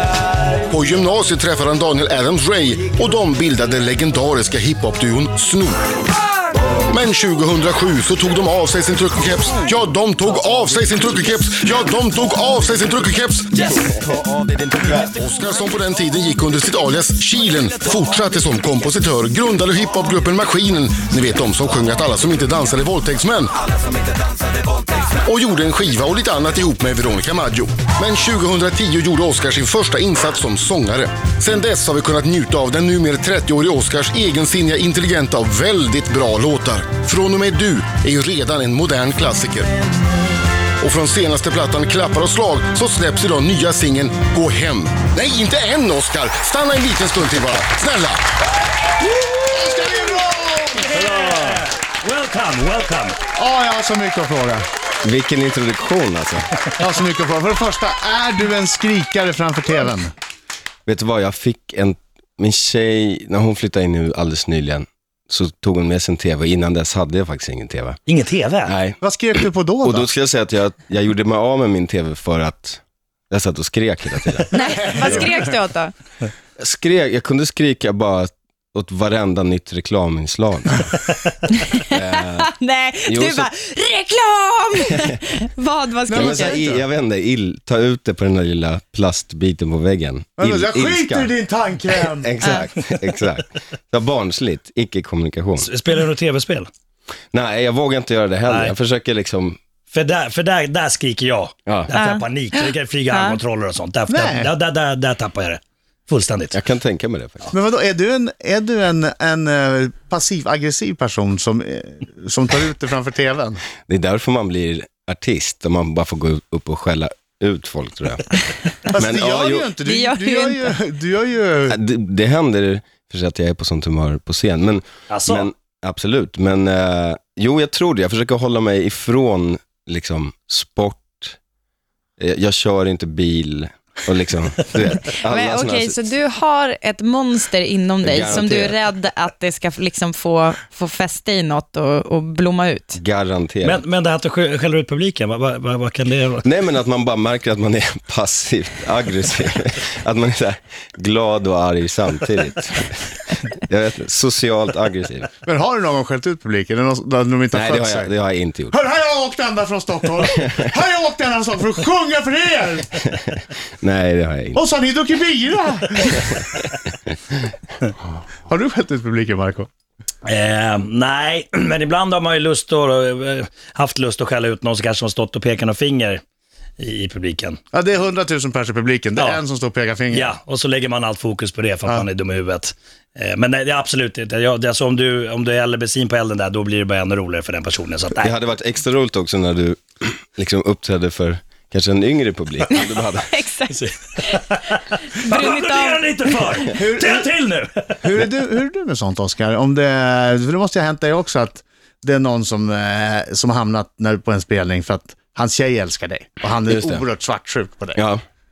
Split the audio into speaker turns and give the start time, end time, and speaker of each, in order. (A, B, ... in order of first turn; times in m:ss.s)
0:00.6-0:05.9 A
0:06.9-0:13.8 A
0:13.8-0:15.1 B
0:15.0-0:23.6 A
0:25.1-0:39.7 A
0:40.8-0:48.2 A
0:49.4-0:51.6 C
0:50.9-0:53.2 D
0:53.4-0:54.7 C
0:55.0-0:56.5 B
0:56.8-1:00.1 C
1:00.9-1:08.0 B
1:08.1-1:08.8 D
1:08.6-1:09.0 B
1:09.0-1:10.1 C
1:09.8-1:15.3 B
1:14.5-1:15.9 E
1:14.6-1:15.3 C
1:16.6-1:21.0 B
1:21.6-1:26.6 E
1:21.8-1:22.5 B
1:23.1-1:23.5 B
1:24.9-1:25.2 B
1:26.1-1:26.8 C
1:26.1-1:31.3 B
1:30.4-1:32.3 C
1:32.0-1:35.7 B
1:35.6-1:36.7 D
1:37.3-1:39.6 B
1:38.5-1:38.7 D
1:39.9-1:46.6 D
1:41.7-1:41.9 B
1:41.9-1:43.4 E
1:44.1-1:44.5 C
1:46.5-1:47.5 B
1:47.5-1:53.6 C
1:53.9-1:58.3 B
1:58.9-1:59.7 B
1:58.9-2:01.8 C
1:59.8-2:00.7 E
2:01.7-2:11.4 B
2:05.1-2:05.5 D
2:12.2-2:16.0 B
2:15.0-2:23.0 E
2:18.0-2:18.8 B
2:23.0-2:23.8 B
2:23.6-2:26.4 D
2:26.4-2:35.3 B
2:35.4-2:38.1 C
2:37.5-2:38.8 B
2:38.7-2:42.9 C
2:43.0-2:44.6 B
2:44.6-2:46.5 C
2:48.5-2:49.7 C
2:50.2-2:56.2 D
2:56.8-2:57.6 D
2:57.7-3:00.3 C
3:00.1-3:08.4 D
3:08.2-3:13.3 B
3:12.7-3:14.4 E
3:13.7-3:18.1 D
3:15.1-3:16.6 E
3:16.7-3:17.3 C
3:18.0-3:28.0 C
3:26.7-3:27.0 B
3:28.0-3:28.2 B